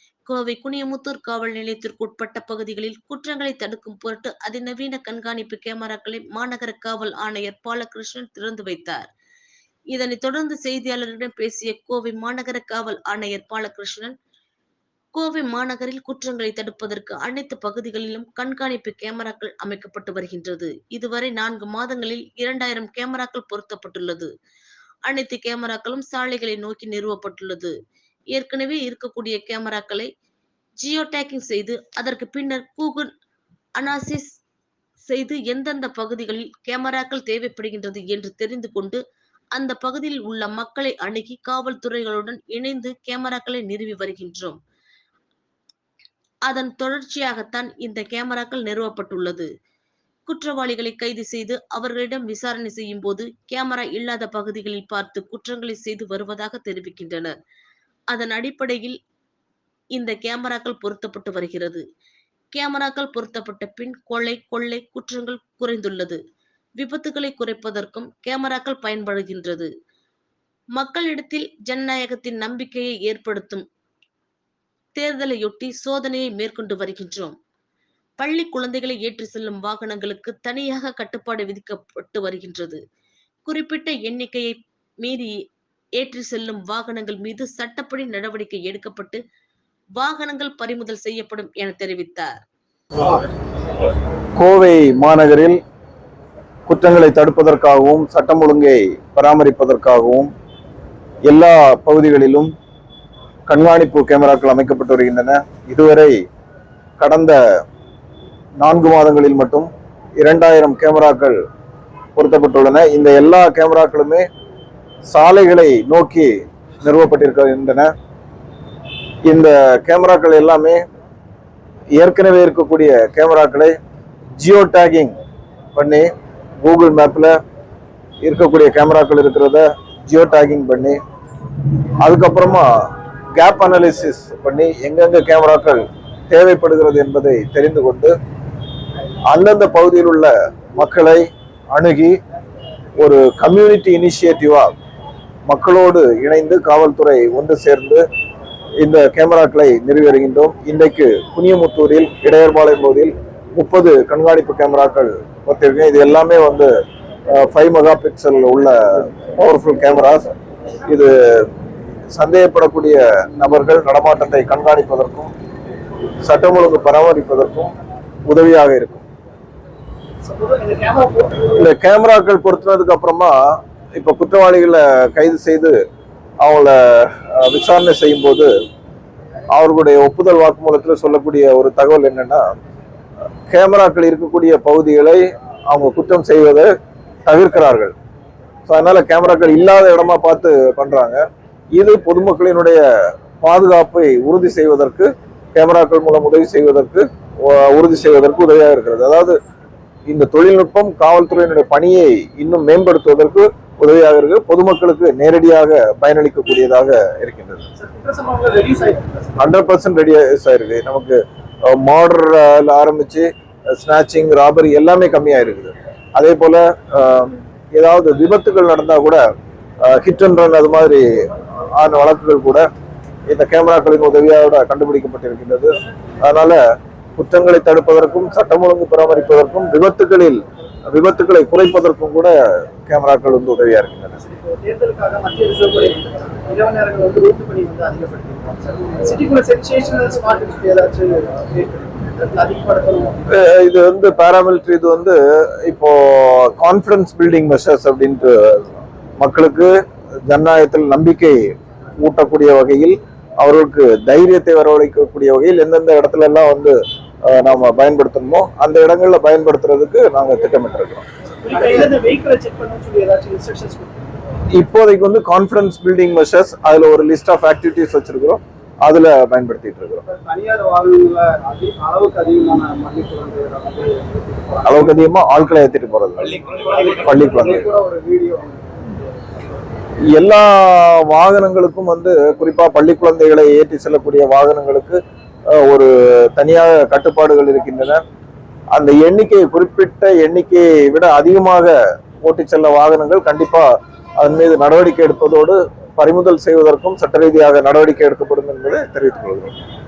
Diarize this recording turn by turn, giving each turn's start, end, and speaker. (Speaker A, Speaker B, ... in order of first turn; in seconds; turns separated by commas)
Speaker A: 0.3-9.1, Speaker A: 9.9-14.1, Speaker A: 15.1-24.3, Speaker A: 25.1-27.7, Speaker A: 28.3-30.1, Speaker A: 30.8-33.1, Speaker A: 33.8-34.3, Speaker A: 35.0-39.0, Speaker A: 39.5-44.6, Speaker A: 46.5-49.5, Speaker A: 50.3-57.3, Speaker A: 58.1-59.0, Speaker A: 59.9-61.8, Speaker A: 62.5-66.2, Speaker A: 66.8-69.7, Speaker A: 70.8-73.6, Speaker A: 75.0-77.3, Speaker A: 78.2-82.8, Speaker A: 83.5-85.3, Speaker A: 86.0-89.2, Speaker A: 90.0-92.3, Speaker B: 94.4-95.6, Speaker B: 96.7-100.3, Speaker B: 101.3-102.5, Speaker B: 103.5-106.1, Speaker B: 107.0-107.4, Speaker B: 108.6-111.4, Speaker B: 112.2-114.2, Speaker B: 115.1-117.9, Speaker B: 119.2-120.8, Speaker B: 121.9-123.7, Speaker B: 124.4-125.2, Speaker B: 125.7-126.1, Speaker B: 126.6-127.3, Speaker B: 128.2-131.0, Speaker B: 132.0-132.7, Speaker B: 133.3-138.1, Speaker B: 139.3-142.2, Speaker B: 143.0-144.7, Speaker B: 145.5-148.0, Speaker B: 148.8-156.7, Speaker B: 157.3-160.3, Speaker B: 160.8-161.5, Speaker B: 162.1-165.3, Speaker B: 166.2-167.7, Speaker B: 168.3-169.0, Speaker C: 170.2-171.5, Speaker B: 171.4-173.3, Speaker B: 173.9-175.8, Speaker B: 176.4-178.5, Speaker B: 179.5-182.4, Speaker B: 183.5-186.7, Speaker B: 187.2-187.9, Speaker B: 188.7-191.2, Speaker B: 191.7-192.8, Speaker B: 193.4-199.4, Speaker B: 200.1-207.7, Speaker C: 207.8-209.4, Speaker B: 209.4-219.2, Speaker B: 219.8-222.7, Speaker B: 223.3-225.7, Speaker B: 226.2-226.6, Speaker B: 227.2-232.3, Speaker B: 232.8-234.2, Speaker C: 234.2-243.2, Speaker B: 243.3-249.7, Speaker B: 250.3-251.5, Speaker B: 252.0-261.1, Speaker C: 261.4-264.1, Speaker B: 264.5-270.0, Speaker C: 270.1-275.0, Speaker B: 274.6-276.4, Speaker C: 276.5-279.1, Speaker B: 276.9-277.7, Speaker B: 280.1-285.0, Speaker B: 285.5-288.0, Speaker B: 288.7-291.7, Speaker B: 292.2-299.5